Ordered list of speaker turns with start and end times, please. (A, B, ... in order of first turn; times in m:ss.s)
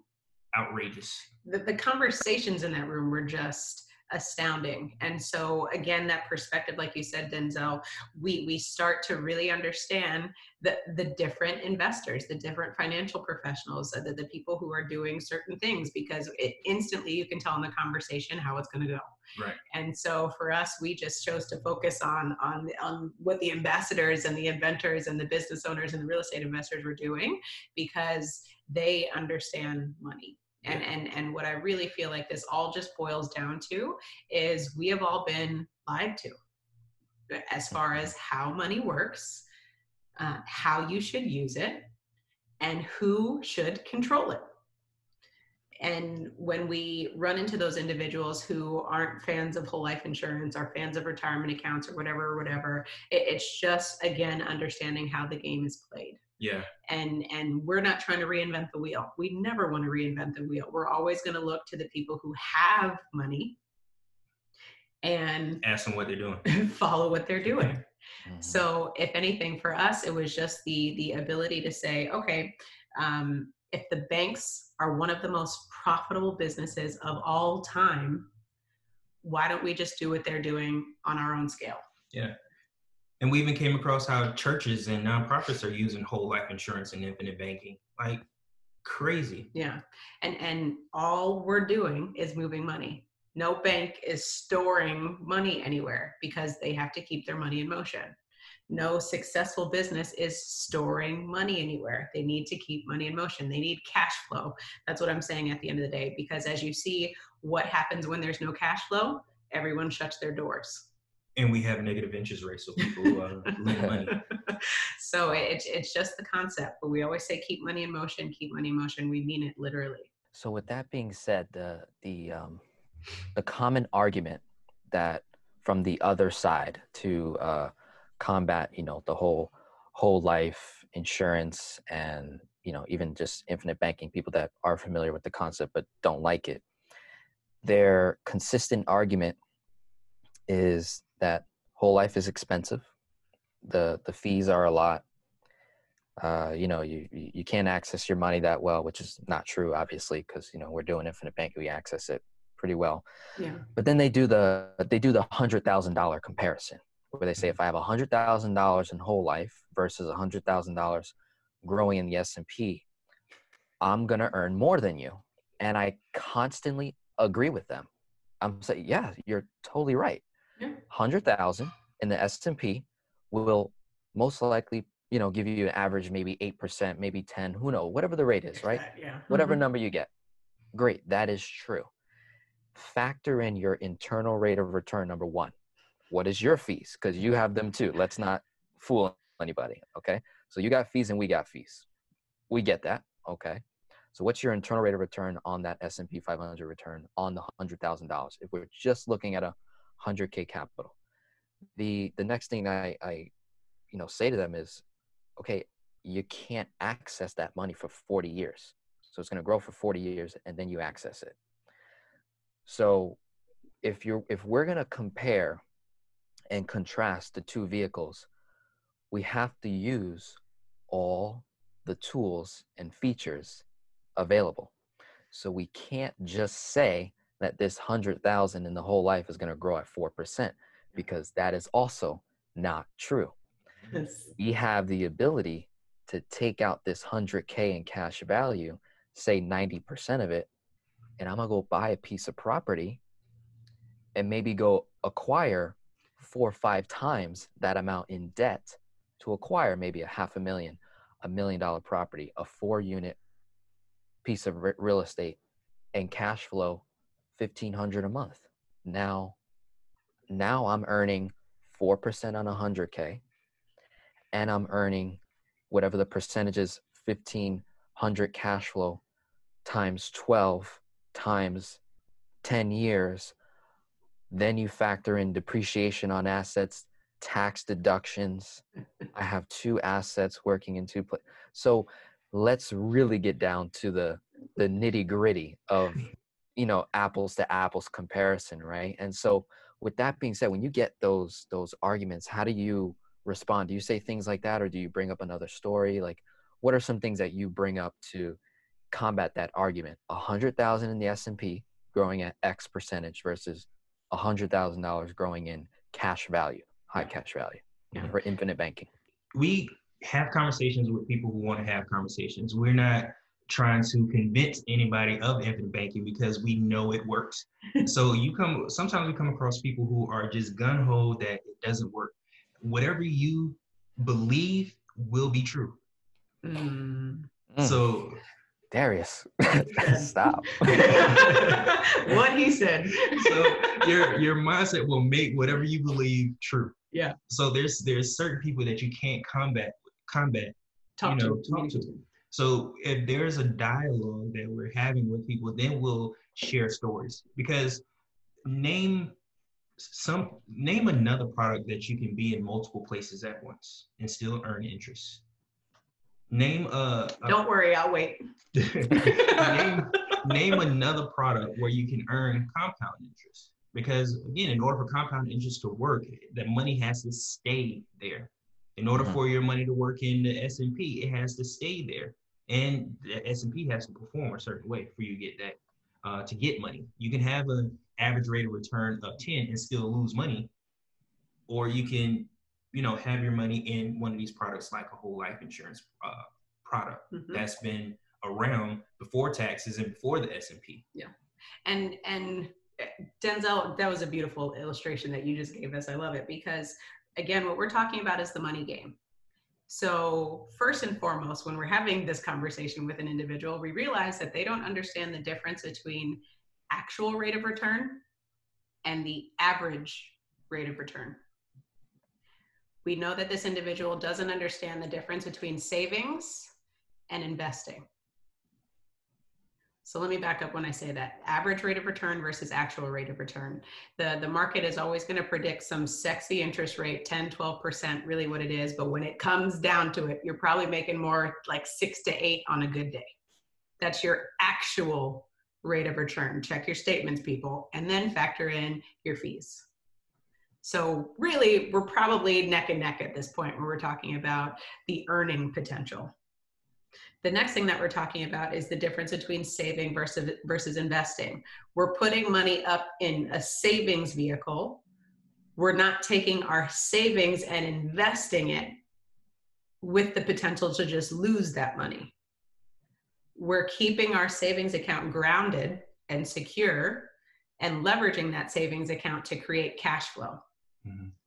0:00.5-0:01.3 A
0:01.4-0:19.1 B
0:19.3-0:19.6 A
0:19.7-0:36.4 B
0:37.3-0:39.4 B
0:40.2-0:41.9 B
0:42.6-0:44.5 B
0:45.8-0:56.2 B
0:56.4-0:56.7 A
0:56.8-1:03.6 B
1:05.0-1:05.6 B
1:05.6-1:06.4 A
1:06.4-1:07.8 B
1:08.3-1:08.6 C
1:08.4-1:18.3 B
1:19.2-1:21.8 B
1:23.2-1:28.2 A
1:28.8-1:29.5 A
1:29.5-1:38.1 B
1:38.7-1:50.9 B
1:51.4-1:54.2 A
1:54.1-2:00.1 B
2:00.3-2:02.6 C
2:03.3-2:16.6 C
2:17.6-2:19.4 C
2:20.5-2:22.9 C
2:23.6-2:25.0 C
2:26.2-2:33.0 C
2:33.4-2:33.6 B
2:33.7-2:42.8 C
2:43.8-2:47.9 C
2:48.4-2:50.2 C
2:50.9-3:00.1 C
2:58.6-2:59.6 B
3:00.7-3:01.9 C
3:02.7-3:05.5 C
3:06.1-3:11.8 C
3:12.5-3:13.6 C
3:14.1-3:20.9 C
3:21.8-3:23.3 C
3:23.9-3:24.8 C
3:25.4-3:31.4 C
3:32.6-3:33.2 C
3:33.8-3:35.6 C
3:36.5-3:38.3 C
3:39.1-3:43.6 C
3:44.2-3:44.7 C
3:45.3-3:53.3 C
3:53.9-3:54.3 B
3:54.3-4:00.5 C
4:01.2-4:03.0 C
4:04.1-4:13.2 C
4:14.2-4:15.4 C
4:15.9-4:19.4 C
4:20.3-4:23.2 C
4:24.3-4:29.0 C
4:29.6-4:31.8 C
4:32.4-4:33.3 C
4:34.3-4:58.4 C
4:58.9-5:08.9 C
5:09.3-5:25.8 A
5:26.4-5:27.3 B
5:27.5-5:27.8 C
5:27.6-5:28.2 A
5:28.7-5:30.9 C
5:29.7-5:33.9 B
5:30.9-5:31.7 A
5:33.1-5:36.8 A
5:36.9-5:37.2 B
5:37.3-5:47.8 A
5:41.0-5:42.0 B
5:48.4-5:49.1 A
5:49.8-5:55.2 A
5:56.3-5:57.4 A
5:57.2-5:58.2 B
5:58.5-6:20.5 A
5:58.9-6:00.5 B
6:08.9-6:09.2 C
6:21.5-6:30.8 A
6:27.1-6:27.4 B
6:31.6-6:39.0 B
6:39.7-6:48.0 B
6:48.8-6:51.2 B
6:52.8-6:56.5 B
6:57.1-6:57.8 B
6:59.8-7:13.2 B
7:13.8-7:19.7 B
7:20.6-7:26.1 B
7:27.2-7:34.8 B
7:35.6-7:38.7 B
7:39.8-7:42.1 B
7:43.4-7:50.4 B
7:50.8-7:51.1 A